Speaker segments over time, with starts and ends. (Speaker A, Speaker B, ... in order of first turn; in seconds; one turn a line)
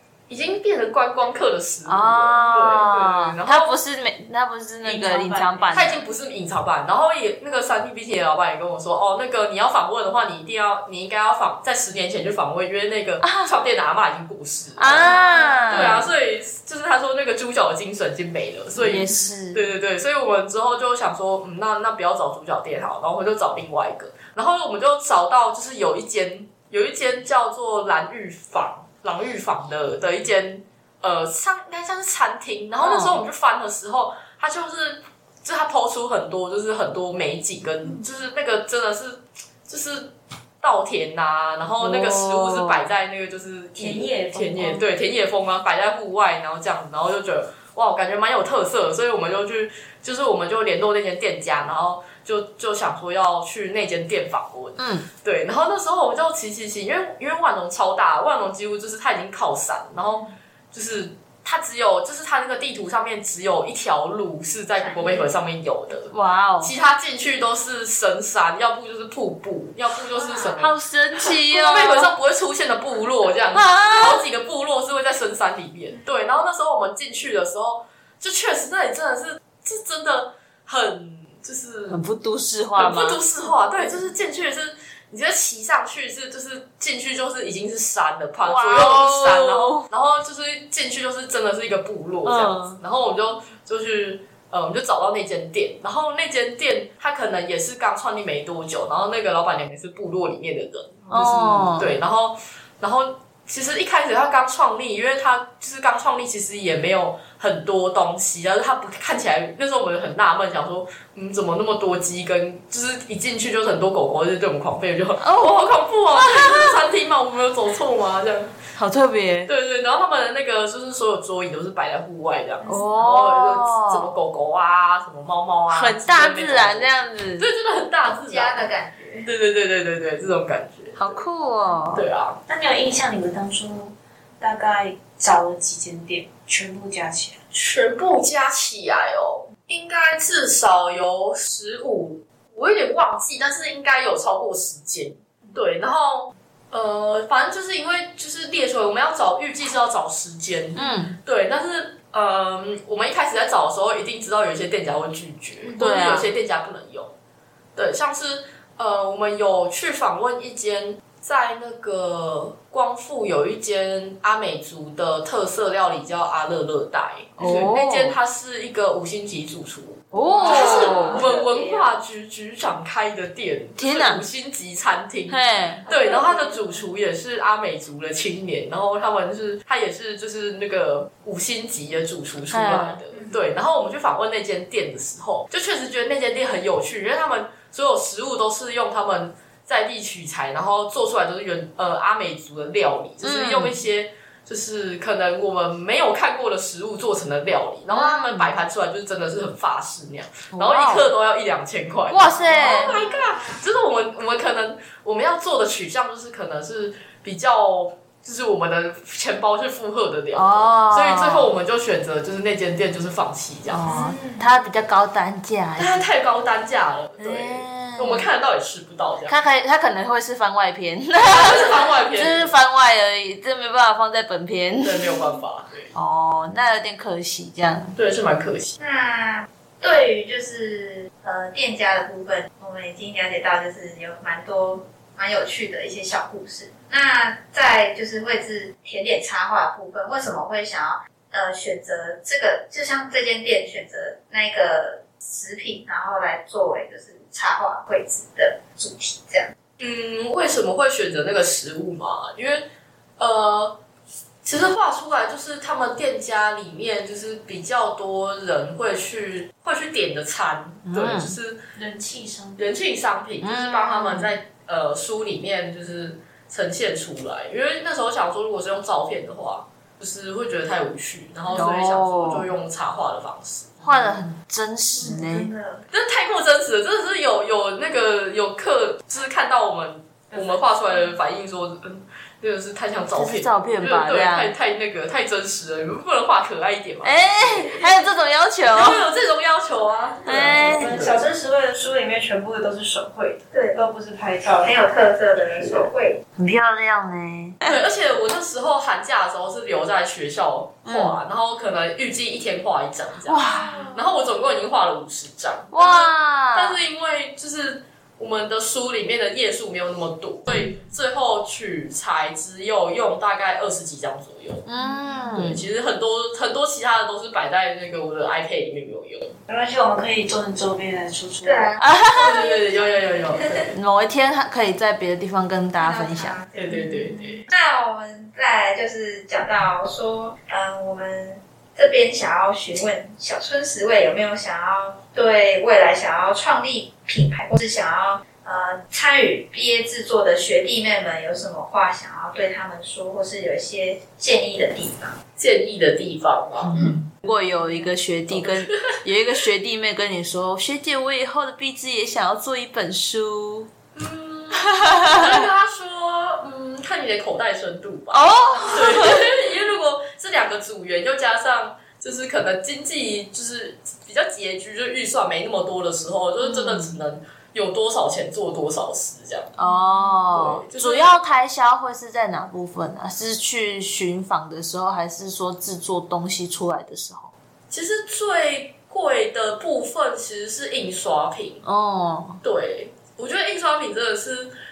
Speaker A: 0.3-3.8
Speaker B: 1.9-6.0
Speaker C: 4.8-6.0
Speaker A: 5.7-15.2
Speaker B: 13.2-13.5
Speaker B: 14.8-16.1
Speaker C: 14.8-16.1
Speaker A: 15.7-82.0
Speaker B: 18.8-19.6
Speaker B: 32.8-33.2
Speaker B: 41.8-42.9
Speaker C: 43.8-44.9
Speaker B: 54.8-55.1
Speaker D: 64.8-65.3
Speaker B: 66.1-66.7
Speaker D: 70.2-70.6
Speaker B: 70.6-72.1
Speaker B: 73.5-74.2
Speaker B: 81.9-83.2
Speaker A: 82.8-118.5
Speaker B: 88.4-89.9
Speaker B: 92.2-92.8
Speaker B: 101.1-102.0
Speaker B: 115.2-116.8
Speaker B: 118.8-119.5
Speaker A: 119.5-128.7
Speaker B: 122.7-124.1
Speaker B: 125.7-127.5
Speaker D: 128.1-129.3
Speaker A: 129.2-131.3
Speaker B: 131.0-132.1
Speaker A: 131.9-132.4
Speaker C: 132.5-137.4
Speaker A: 137.5-157.1
Speaker B: 150.8-151.2
Speaker B: 155.8-156.3
Speaker A: 157.8-213.9
Speaker B: 167.4-168.2
Speaker B: 170.1-171.2
Speaker D: 170.2-171.9
Speaker B: 173.8-174.2
Speaker B: 175.3-175.8
Speaker D: 175.8-176.8
Speaker B: 182.5-183.0
Speaker D: 183.1-183.4
Speaker B: 193.2-193.8
Speaker B: 197.9-198.6
Speaker B: 200.5-201.1
Speaker B: 202.1-203.0
Speaker D: 202.4-203.6
Speaker B: 210.3-211.5
Speaker B: 213.7-216.1
Speaker C: 213.8-214.5
Speaker A: 215.8-219.4
Speaker B: 217.2-218.3
Speaker B: 219.3-225.4
Speaker A: 221.2-222.5
Speaker A: 224.8-225.9
Speaker B: 225.9-228.0
Speaker A: 228.0-228.8
Speaker D: 228.8-249.5
Speaker A: 249.8-252.7
Speaker A: 253.2-253.8
Speaker A: 254.4-261.6
Speaker B: 260.9-261.4
Speaker C: 261.8-262.6
Speaker A: 262.6-274.0
Speaker B: 263.4-264.3
Speaker B: 271.5-272.5
Speaker B: 273.8-275.5
Speaker D: 275.0-275.8
Speaker A: 275.9-287.9
Speaker C: 280.3-280.7
Speaker B: 283.1-284.5
Speaker B: 287.0-289.1
Speaker A: 288.7-291.2
Speaker B: 290.2-290.9
Speaker C: 290.3-294.8
Speaker D: 293.5-293.8
Speaker D: 294.6-296.2
Speaker B: 296.4-297.8
Speaker A: 297.6-303.4
Speaker B: 300.9-301.2
Speaker B: 303.3-303.9
Speaker D: 303.5-304.1
Speaker A: 303.9-314.6
Speaker B: 305.7-306.8
Speaker B: 314.7-315.6
Speaker D: 314.8-315.3
Speaker A: 315.3-319.4
Speaker C: 319.5-321.7
Speaker D: 321.4-323.7
Speaker B: 321.8-322.5
Speaker A: 322.2-323.7
Speaker B: 323.7-326.4
Speaker D: 325.8-345.2
Speaker A: 326.5-327.4
Speaker A: 345.4-346.8
Speaker B: 346.6-353.7
Speaker A: 348.3-349.0
Speaker A: 353.9-369.5
Speaker B: 354.6-355.4
Speaker B: 358.1-359.4
Speaker B: 366.4-367.0
Speaker B: 369.6-377.3
Speaker C: 369.6-370.2
Speaker A: 370.3-371.1
Speaker A: 377.7-381.6
Speaker B: 381.6-382.4
Speaker A: 382.4-384.5